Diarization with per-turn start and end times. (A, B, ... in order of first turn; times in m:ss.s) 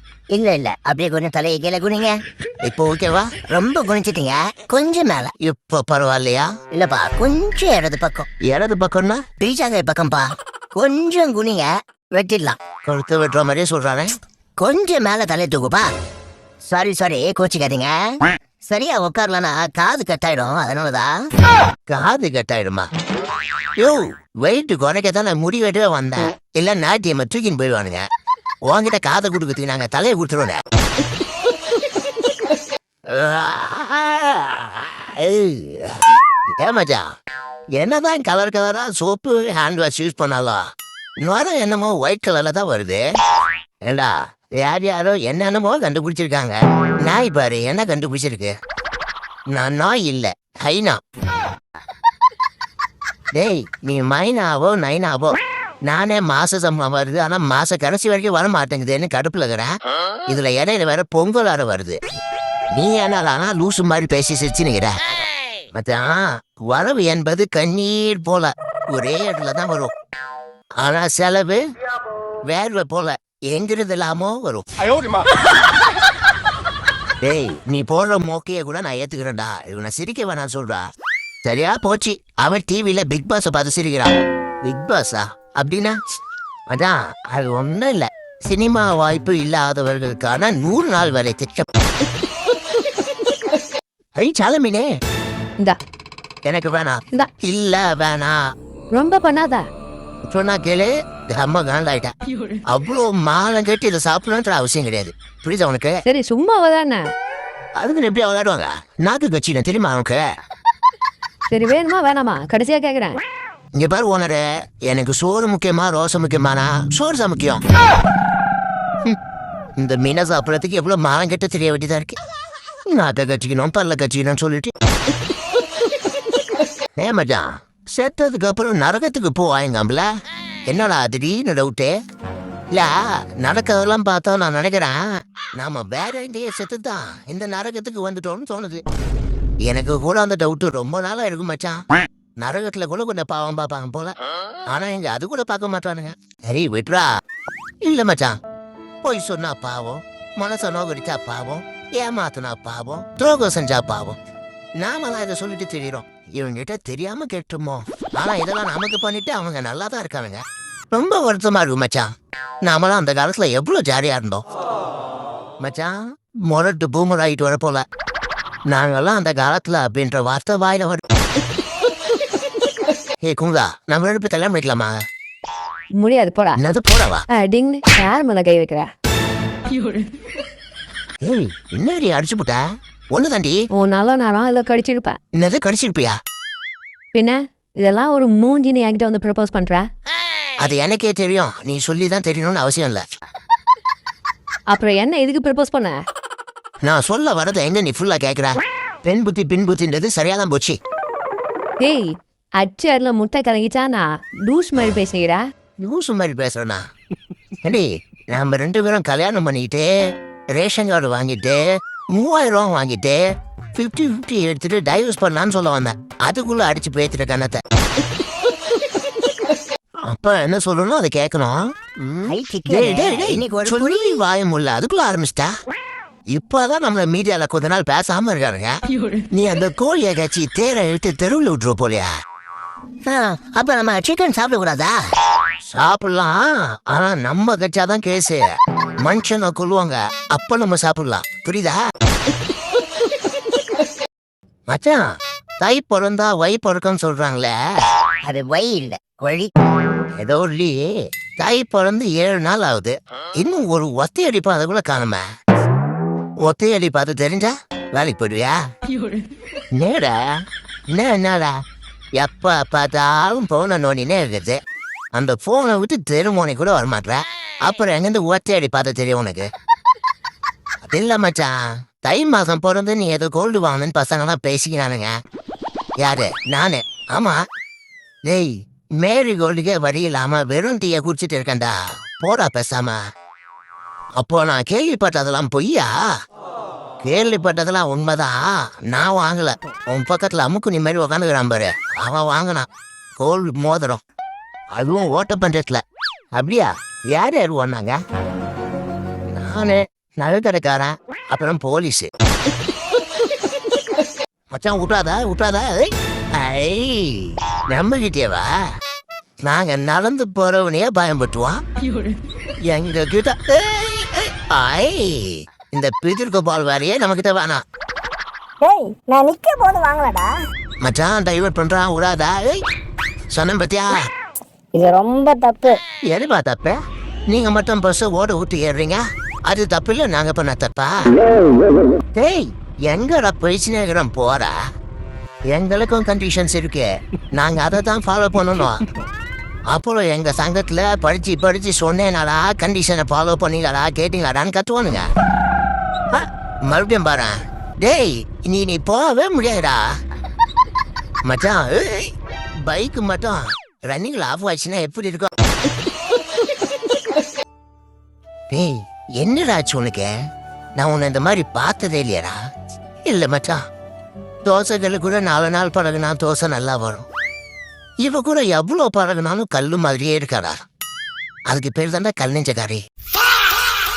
0:00.3-0:02.2 A
0:02.6-0:03.4 B
0:03.5-0:05.3 A
0:05.4-0:06.5 B
0:06.7-0:08.3 A
0:08.4-0:09.2 B
0:09.4-0:12.6 A
0:12.8-0:14.1 B
0:14.6-0:15.9 A
0:16.6-0:21.2 A
0:21.9-0:22.9 B
0:23.8-0:28.0 B
0:28.7-0:30.6 B
0:33.1-0:37.0 B
0:37.8-0:40.6 B
0:41.2-0:43.1 B
0:43.9-0:48.5 B
0:49.5-0:51.0 B
0:53.3-0:59.7 B
1:00.3-1:02.0 B
1:02.7-1:05.0 B
1:05.7-1:09.9 B
1:10.8-1:11.6 B
1:12.4-1:14.6 B
1:17.2-1:20.8 B
1:21.4-1:26.0 B
1:26.7-1:31.7 B
1:34.2-1:34.9 B
1:36.4-1:38.4 B
1:38.9-1:39.7 C
1:40.3-1:42.1 B
1:42.7-1:46.0 B
1:46.1-1:47.1 C
1:47.8-1:50.2 B
1:51.5-1:53.2 C
1:53.8-1:57.6 B
1:59.8-2:02.2 B
2:02.9-2:04.7 B
2:07.0-2:10.1 B
2:10.7-2:12.0 B
2:12.7-2:15.0 B
2:15.6-2:18.8 B
2:19.6-2:21.8 B
2:22.4-2:24.2 B
2:24.7-2:27.1 B
2:27.8-2:28.4 B
2:29.0-2:34.2 B
2:34.8-2:42.1 B
2:42.6-2:44.4 B
2:45.6-2:46.0 B
2:46.5-2:47.8 B
2:48.7-2:51.0 B
2:53.2-2:55.0 B
2:56.0-2:56.6 C
2:56.6-2:57.3 B
2:57.3-2:58.9 C
3:01.2-3:03.6 B
3:03.7-3:05.2 C
3:05.3-3:06.2 B
3:07.1-3:09.9 C
3:10.6-3:13.1 B
3:14.7-3:16.0 C
3:16.8-3:20.8 B
3:21.8-3:25.4 C
3:25.8-3:26.8 B
3:27.6-3:37.6 B
3:40.1-3:45.5 B
3:42.3-3:44.2 A
3:46.3-3:48.8 B
3:49.3-3:52.1 B
3:53.0-3:55.0 A
3:55.7-4:01.8 B
4:04.7-4:05.0 B
4:05.6-4:07.6 B
4:08.2-4:09.5 A
4:10.2-4:15.2 B
4:16.4-4:18.6 B
4:19.8-4:20.2 B
4:20.9-4:21.6 B
4:22.2-4:24.6 B
4:25.1-4:29.5 B
4:30.8-4:35.1 B
4:36.0-4:37.4 B
4:38.3-4:43.0 B
4:44.2-4:45.9 B
4:47.0-4:52.7 B
4:53.2-4:54.0 B
4:54.8-4:55.8 B
4:56.4-4:58.0 B
4:59.3-5:02.1 B
5:04.5-5:08.5 B
5:09.4-5:11.6 B
5:12.7-5:17.6 B
5:18.6-5:20.3 D
5:20.8-5:22.6 B
5:23.3-5:24.0 B
5:24.8-5:25.8 D
5:26.1-5:26.8 B
5:27.3-5:31.0 B
5:32.2-5:34.5 B
5:35.5-5:38.8 B
5:39.7-5:45.1 B
5:46.1-5:49.9 B
5:51.2-5:55.3 B
5:58.5-6:00.2 B
6:00.8-6:02.4 B
6:03.0-6:03.6 B
6:04.4-6:07.0 B
6:08.0-6:10.6 B
6:11.5-6:12.8 B